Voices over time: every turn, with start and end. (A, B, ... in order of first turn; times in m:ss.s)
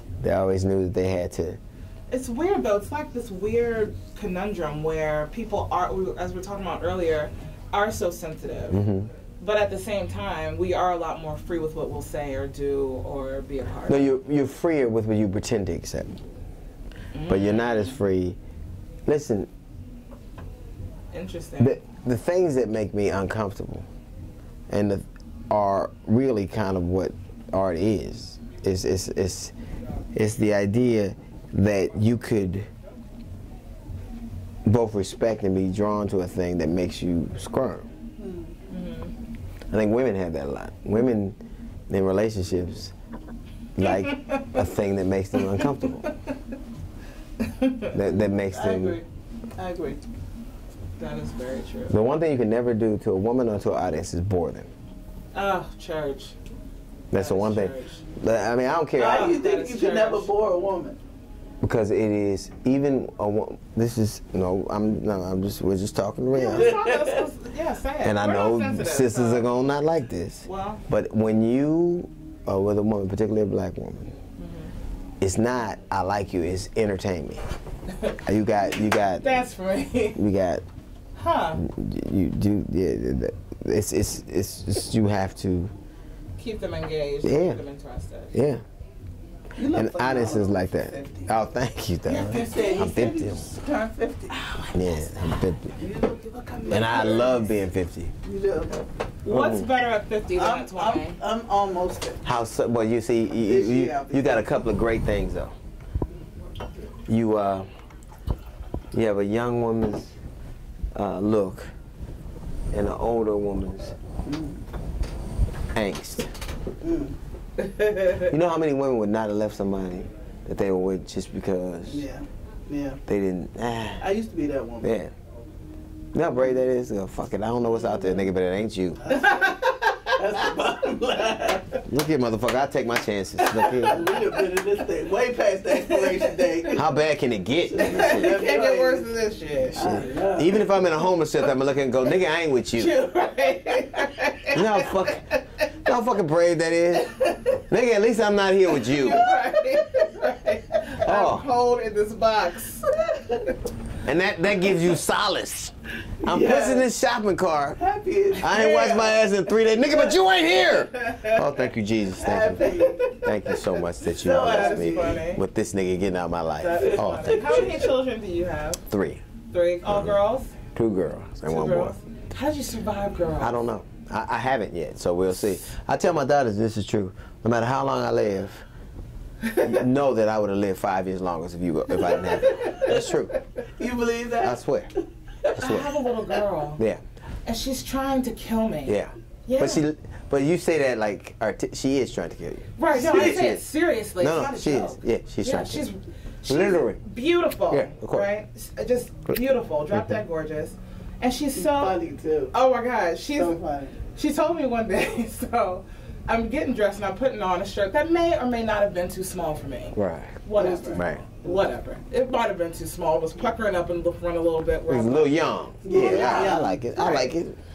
0:00.2-0:01.6 A
0:02.1-0:08.8 B
0:08.7-0:09.1 A
0:09.4-0:14.1 B
0:13.9-0:16.2 A
0:17.1-0:18.0 B
0:17.3-0:18.4 A
0:19.1-0:19.5 A
0:21.1-0:21.8 B
0:21.6-0:23.9 A
0:24.7-0:29.5 A
0:30.1-0:32.7 A
0:34.7-0:37.9 A
0:38.2-0:38.6 C
0:38.7-0:39.1 B
0:39.7-0:41.4 A
0:41.9-0:42.9 A
0:43.8-0:46.0 A
0:43.9-0:44.5 B
0:45.6-0:46.1 B
0:47.4-0:47.9 B
0:47.9-0:49.0 A
0:48.1-0:49.0 C
0:49.6-0:50.0 C
0:51.0-0:52.0 B
0:51.9-0:54.7 A
0:55.3-0:56.4 B
0:57.1-0:59.3 A
0:57.2-0:58.0 B
0:59.0-1:00.3 B
0:59.0-1:01.0 C
1:01.6-1:06.8 A
1:06.3-1:09.5 B
1:06.5-1:07.2 C
1:08.0-1:14.1 A
1:10.4-1:10.8 B
1:14.4-1:14.7 B
1:15.2-1:17.4 A
1:18.2-1:19.4 A
1:19.2-1:20.2 B
1:20.2-1:20.6 A
1:21.2-1:21.6 B
1:21.6-1:25.7 A
1:26.4-1:28.3 B
1:27.2-1:27.6 A
1:28.3-1:28.6 A
1:29.6-1:31.3 C
1:29.7-1:33.5 A
1:32.1-1:33.0 B
1:32.1-1:34.3 C
1:34.3-1:35.1 B
1:34.7-1:35.7 A
1:35.8-1:37.5 C
1:36.7-1:38.1 A
1:38.2-1:38.8 C
1:39.2-1:41.2 B
1:39.3-1:39.7 A
1:40.4-1:42.2 C
1:42.2-1:45.5 A
1:43.5-1:44.6 C
1:47.1-1:47.7 A
1:48.9-1:50.1 A
1:50.9-1:51.7 A
1:52.7-1:54.0 A
1:54.2-1:54.6 C
1:55.7-1:56.3 A
1:56.8-1:57.2 C
1:57.6-1:58.3 B
1:58.2-2:02.0 A
2:01.9-2:03.0 C
2:03.1-2:04.0 A
2:04.0-2:04.9 C
2:04.8-2:05.1 A
2:06.1-2:09.2 A
2:07.9-2:08.2 C
2:09.0-2:11.8 C
2:09.1-2:10.2 B
2:11.9-2:14.0 A
2:13.6-2:16.8 C
2:15.8-2:16.6 B
2:16.7-2:18.4 A
2:17.7-2:19.1 C
2:17.8-2:20.0 B
2:19.7-2:23.0 A
2:19.8-2:20.7 C
2:22.8-2:25.4 B
2:24.5-2:25.3 A
2:25.8-2:29.2 A
2:28.8-2:33.0 B
2:31.0-2:31.5 A
2:34.0-2:37.8 A
2:36.2-2:36.9 C
2:37.8-2:39.1 C
2:38.4-2:42.7 A
2:38.4-2:39.1 B
2:42.2-2:45.2 C
2:42.9-2:43.2 B
2:43.2-2:47.7 A
2:44.3-2:45.4 B
2:46.6-2:48.8 B
2:47.3-2:47.8 C
2:48.9-2:49.2 A
2:49.5-2:50.5 B
2:49.9-2:50.2 A
2:50.8-2:52.0 A
2:51.5-2:53.6 B
2:53.4-2:58.6 A
2:59.6-3:03.4 A
3:02.7-3:03.0 C
3:03.8-3:05.5 C
3:04.4-3:04.9 A
3:05.6-3:05.9 A
3:05.6-3:06.8 B
3:07.5-3:09.8 B
3:08.9-3:13.6 A
3:12.8-3:22.0 B
3:14.2-3:15.8 A
3:16.5-3:17.0 A
3:17.7-3:18.3 A
3:21.6-3:22.6 C
3:22.5-3:23.6 B
3:23.4-3:24.0 C
3:24.2-3:37.3 B
3:30.0-3:30.4 A
3:30.6-3:31.1 C
3:30.9-3:31.2 A
3:34.9-3:37.6 A
3:35.9-3:36.8 C